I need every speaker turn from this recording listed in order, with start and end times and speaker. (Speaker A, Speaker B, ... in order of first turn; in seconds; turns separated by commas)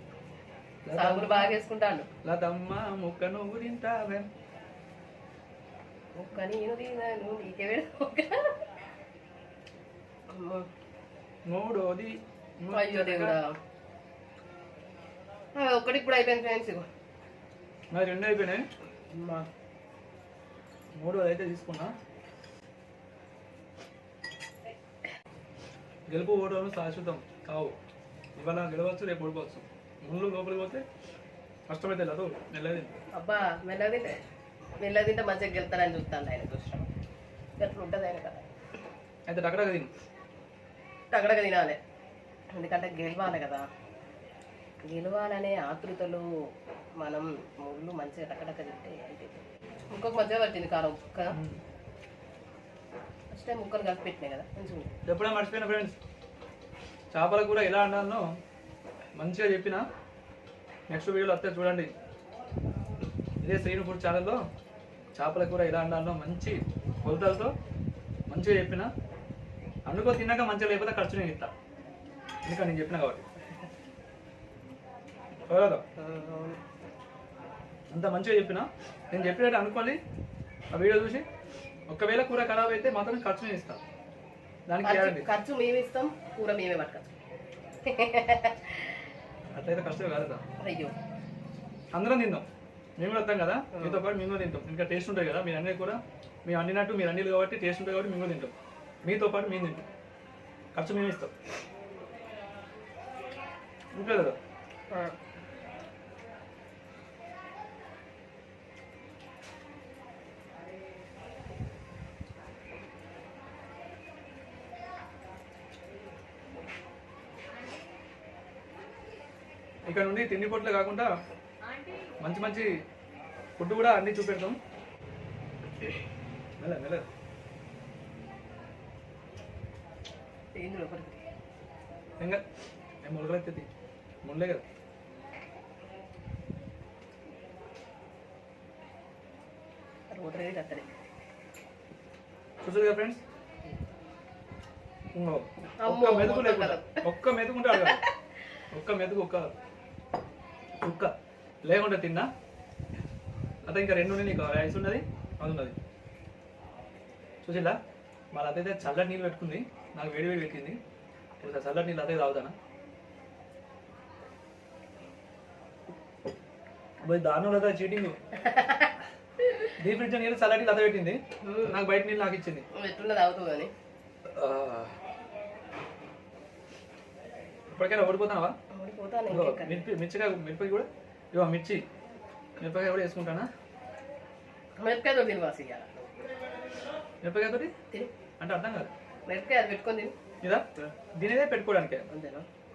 Speaker A: 0.8-1.6, Speaker B: 0.9-2.1, Speaker A: 2.2-4.3, Speaker B: 6.2-8.6, Speaker B: 10.3-10.7, Speaker A: 11.5-13.4, Speaker B: 12.7-13.5, Speaker B: 15.6-16.9, Speaker A: 17.9-18.6, Speaker B: 19.1-19.5, Speaker A: 20.9-21.9, Speaker A: 26.1-27.8, Speaker A: 28.4-30.8, Speaker A: 31.7-32.9, Speaker B: 33.1-34.2, Speaker B: 34.8-36.9, Speaker B: 37.6-38.5, Speaker A: 39.3-39.9, Speaker B: 41.1-41.8, Speaker B: 42.6-43.7, Speaker B: 44.8-46.3, Speaker B: 47.0-51.4, Speaker A: 51.3-51.6, Speaker B: 53.3-55.0, Speaker A: 55.0-56.0, Speaker A: 57.1-58.2, Speaker A: 59.2-59.8, Speaker A: 60.9-61.9, Speaker A: 63.4-64.4, Speaker A: 65.1-67.5, Speaker A: 68.3-68.9, Speaker A: 69.8-71.5, Speaker A: 72.4-73.2, Speaker A: 75.5-75.8, Speaker B: 76.0-76.6, Speaker A: 77.9-80.0, Speaker A: 80.7-81.2, Speaker A: 81.9-83.8, Speaker A: 84.7-85.3, Speaker B: 84.8-87.1, Speaker B: 87.8-88.9, Speaker A: 89.5-90.4, Speaker B: 90.6-90.9, Speaker A: 91.9-92.5, Speaker A: 93.0-99.8, Speaker B: 93.7-94.0, Speaker A: 100.7-101.3, Speaker A: 103.9-104.3, Speaker B: 104.9-105.2, Speaker A: 119.9-121.1, Speaker A: 122.2-122.7, Speaker A: 123.6-124.6, Speaker A: 126.6-127.0, Speaker B: 130.6-131.2, Speaker A: 133.0-133.7, Speaker A: 134.2-134.6, Speaker B: 140.1-140.9, Speaker A: 142.6-143.2, Speaker A: 145.1-148.0, Speaker B: 145.8-147.0, Speaker B: 147.7-148.0, Speaker A: 148.7-149.5, Speaker A: 150.8-151.1, Speaker A: 151.6-152.3, Speaker A: 153.6-155.7, Speaker A: 157.4-157.8, Speaker A: 158.3-160.8, Speaker A: 161.4-162.5, Speaker A: 167.0-168.2, Speaker B: 168.3-169.7, Speaker A: 169.8-172.6, Speaker B: 171.4-171.8, Speaker B: 172.7-173.7, Speaker A: 174.2-174.9, Speaker A: 177.7-178.5, Speaker B: 178.7-179.9, Speaker A: 179.3-181.8, Speaker A: 182.6-183.5, Speaker B: 184.8-186.3, Speaker A: 187.2-187.7, Speaker A: 188.4-188.9, Speaker B: 189.3-190.1, Speaker A: 190.4-192.1, Speaker B: 192.1-192.5